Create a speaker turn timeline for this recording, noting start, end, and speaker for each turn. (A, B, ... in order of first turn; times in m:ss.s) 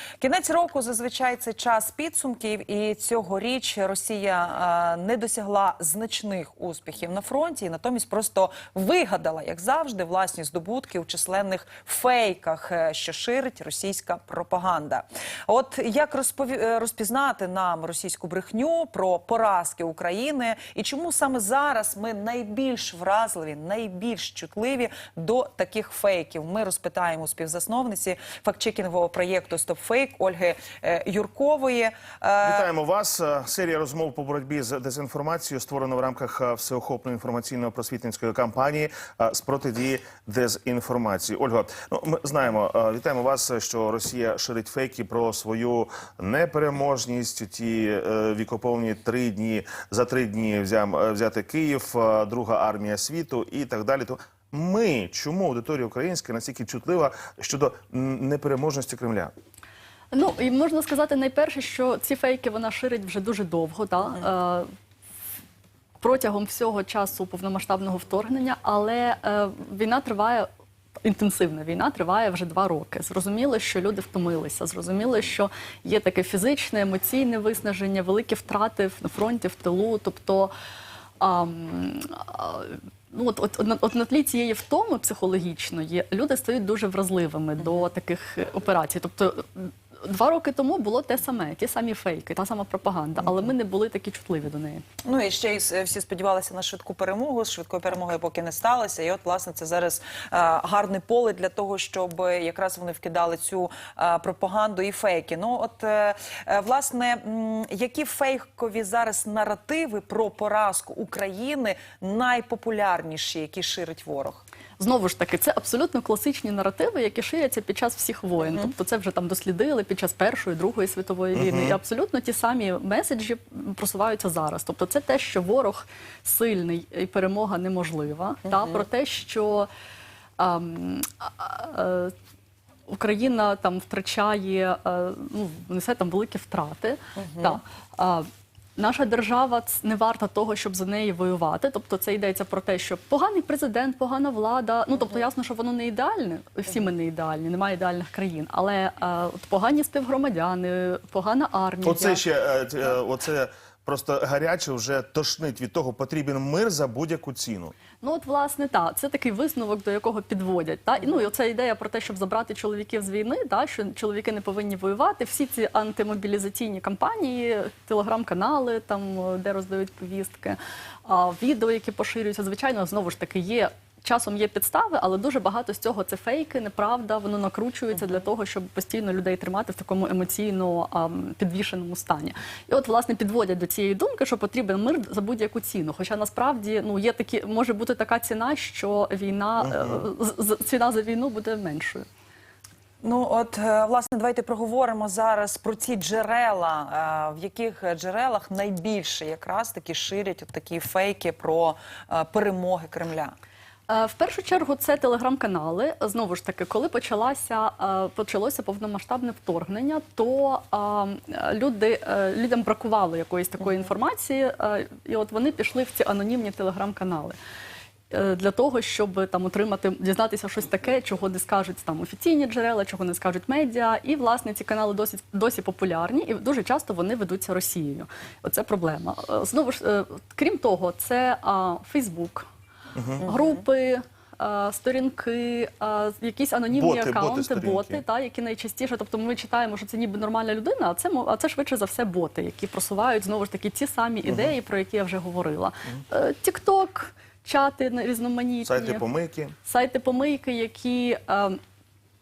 0:00.2-0:32.7 A
0:32.4-0:59.3 B
1:00.1-1:04.7 C
1:06.0-1:10.5 C
1:11.0-1:20.5 C
1:21.2-1:34.8 C
1:35.0-1:54.4 A
1:54.8-2:09.7 C
1:58.4-1:58.7 A
2:01.4-2:01.8 B
2:08.5-2:08.8 A
2:10.4-2:12.1 C
2:12.9-2:32.2 C
2:17.2-2:17.6 A
2:31.8-2:37.7 B
2:38.0-3:12.1 C
3:09.6-3:10.1 B
3:13.0-3:23.3 A
3:23.9-3:37.4 C
3:38.1-3:52.5 C
3:53.0-3:53.2 B
3:53.2-3:53.6 A
3:53.2-4:09.0 C
3:56.7-3:58.0 B
4:04.2-4:04.6 B
4:08.7-4:09.5 B
4:09.6-4:11.6 C